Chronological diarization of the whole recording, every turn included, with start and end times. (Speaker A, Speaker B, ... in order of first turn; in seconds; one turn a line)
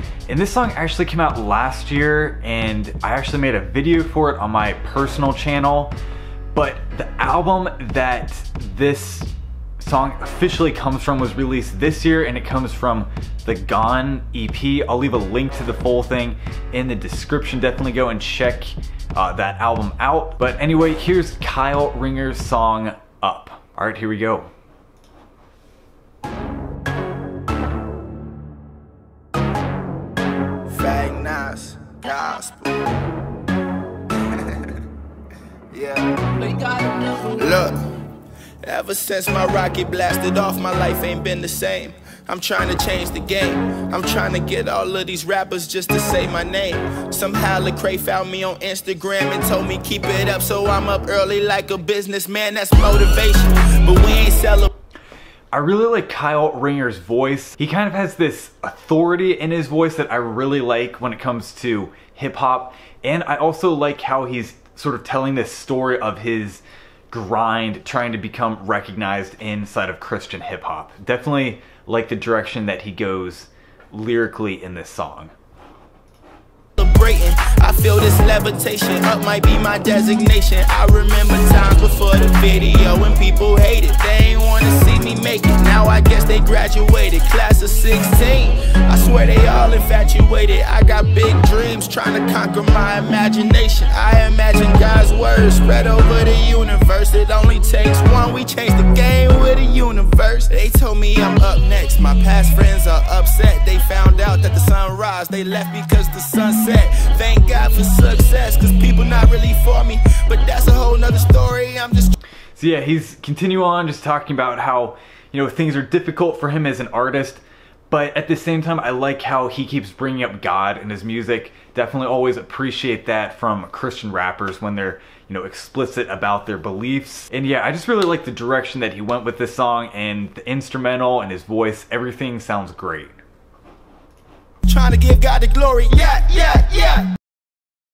Speaker A: 0.3-5.9
Speaker A: 6.5-24.5
Speaker B: 30.7-32.8
Speaker B: 34.2-34.7
Speaker B: 35.7-37.8
Speaker B: 38.6-54.7
Speaker A: 55.5-75.3
Speaker B: 76.8-112.1
Speaker A: 112.5-133.2
Speaker B: 134.7-137.1